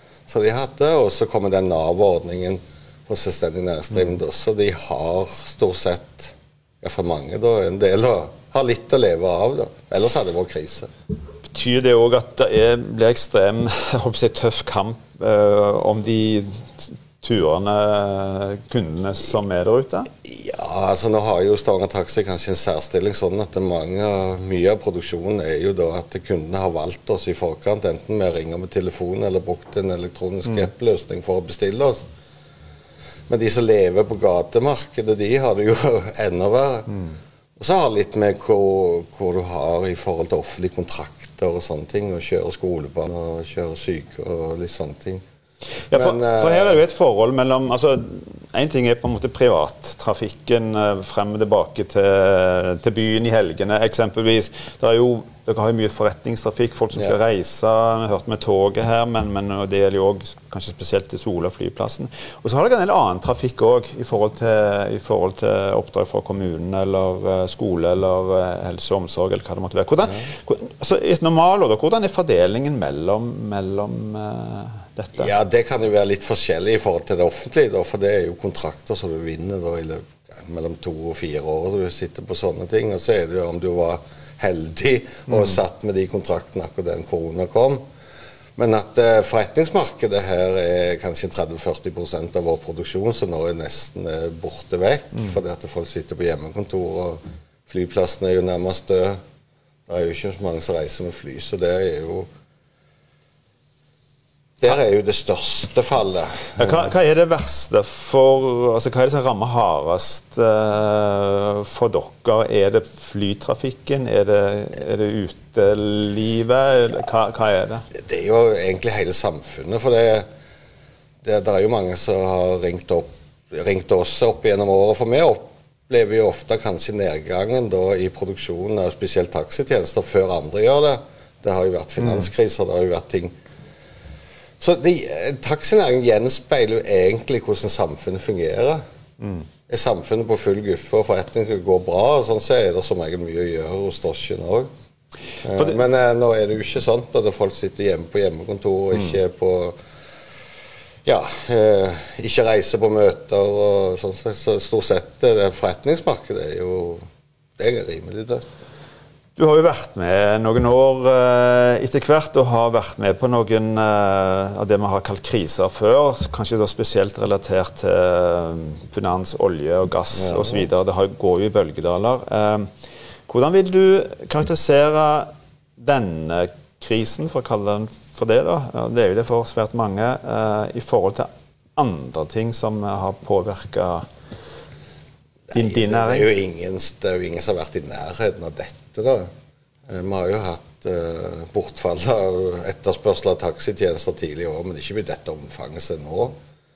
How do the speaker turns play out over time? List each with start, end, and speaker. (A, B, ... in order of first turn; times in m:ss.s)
0:00.3-0:10.9 A
0:11.5-0:20.1 B
0:20.2-0:32.0 A
0:33.3-0:36.9 A
0:37.6-0:45.2 A
0:45.9-1:15.3 B
0:45.9-0:46.8 A
1:15.2-1:27.8 A
1:28.6-1:39.2 A
1:39.9-1:42.3 A
1:44.6-1:46.8 A
1:46.6-1:57.8 B
1:57.9-2:00.3 A
2:01.2-2:13.3 A
2:12.0-2:12.3 B
2:14.6-2:18.8 A
2:19.2-2:19.5 B
2:19.7-2:24.7 A
2:25.4-2:29.8 A
2:31.0-2:37.0 A
2:37.6-2:38.4 A
2:39.4-2:52.7 B
2:50.1-2:50.7 A
2:53.3-3:04.0 B
3:05.5-3:09.3 A
3:05.5-3:06.3 B
3:09.9-3:16.4 A